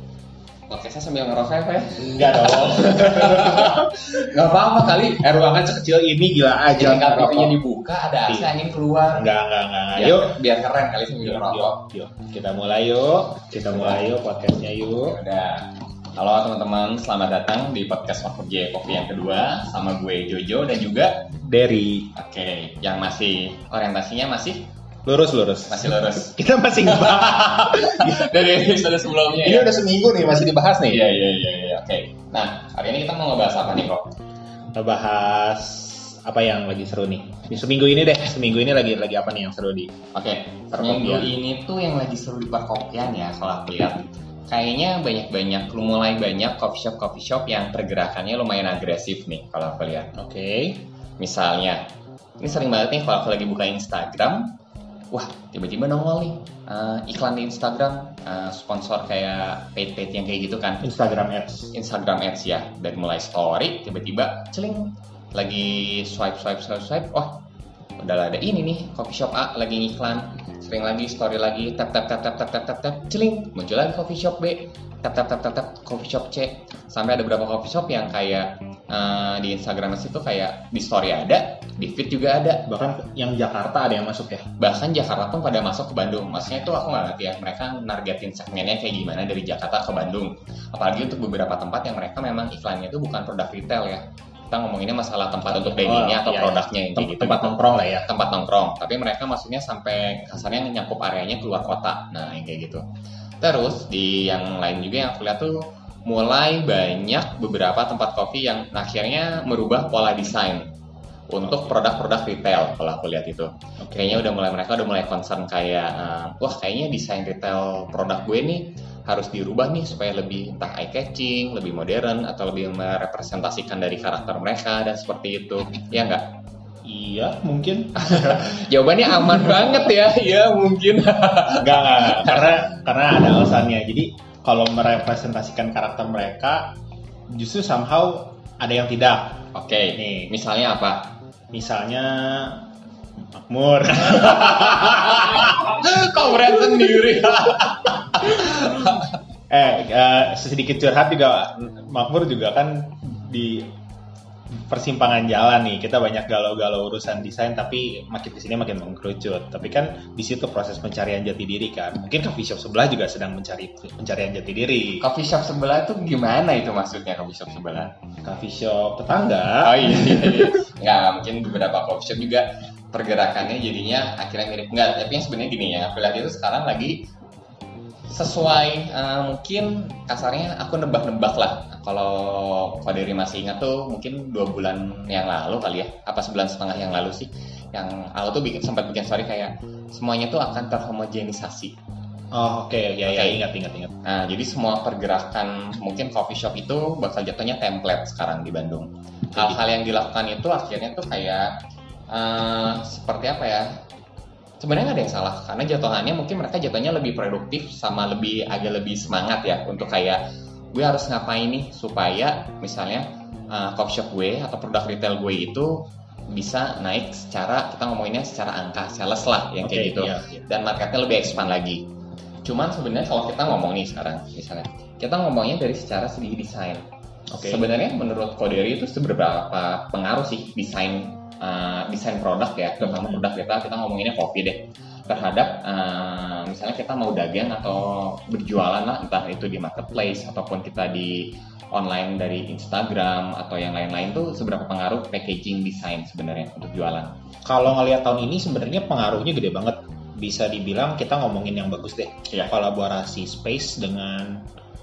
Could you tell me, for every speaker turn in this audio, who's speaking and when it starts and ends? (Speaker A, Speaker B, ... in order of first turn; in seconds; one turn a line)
Speaker A: 0.7-5.5
Speaker B: 2.0-4.1
Speaker B: 5.3-7.5
Speaker A: 6.7-9.2
Speaker B: 9.1-10.4
Speaker A: 9.9-11.8
Speaker B: 11.2-15.2
Speaker A: 13.5-14.0
Speaker A: 15.0-21.2
Speaker B: 21.4-22.1
Speaker A: 22.1-24.7
Speaker B: 25.0-28.3
Speaker A: 25.7-29.7
Speaker B: 29.4-31.0
Speaker A: 30.9-34.1
Speaker B: 34.7-39.9
Speaker A: 40.1-50.1
Speaker B: 40.7-41.3
Speaker B: 50.1-50.8
Speaker A: 51.2-51.8
Speaker A: 52.4-54.5
Speaker A: 55.1-60.8
Speaker B: 60.8-61.7
Speaker A: 61.7-67.4
Speaker A: 68.0-82.6
Speaker B: 82.7-84.5
Speaker A: 84.6-102.8
Speaker B: 95.5-98.1
Speaker A: 103.4-110.7
Speaker A: 111.3-126.2
Speaker B: 113.8-114.2
Speaker B: 126.8-129.8
Speaker A: 127.9-132.6
Speaker B: 131.6-136.7
Speaker B: 137.3-139.4
Speaker A: 139.5-141.1
Speaker B: 139.9-140.3
Speaker B: 141.5-142.7
Speaker B: 143.3-145.7
Speaker A: 144.2-149.1
Speaker B: 146.5-146.8
Speaker B: 148.1-148.9
Speaker B: 149.5-153.7
Speaker B: 154.5-165.0
Speaker A: 165.0-167.9
Speaker B: 168.2-170.6
Speaker A: 169.6-177.0
Speaker A: 178.1-191.7
Speaker B: 192.3-193.9
Speaker A: 193.1-193.4
Speaker A: 194.0-201.5
Speaker B: 199.3-199.6
Speaker A: 202.1-203.8
Speaker A: 204.6-210.2
Speaker A: 210.7-221.8
Speaker B: 219.6-220.4
Speaker A: 222.4-226.8
Speaker B: 227.3-227.7
Speaker A: 227.4-247.1
Speaker B: 232.8-233.2
Speaker B: 247.4-254.5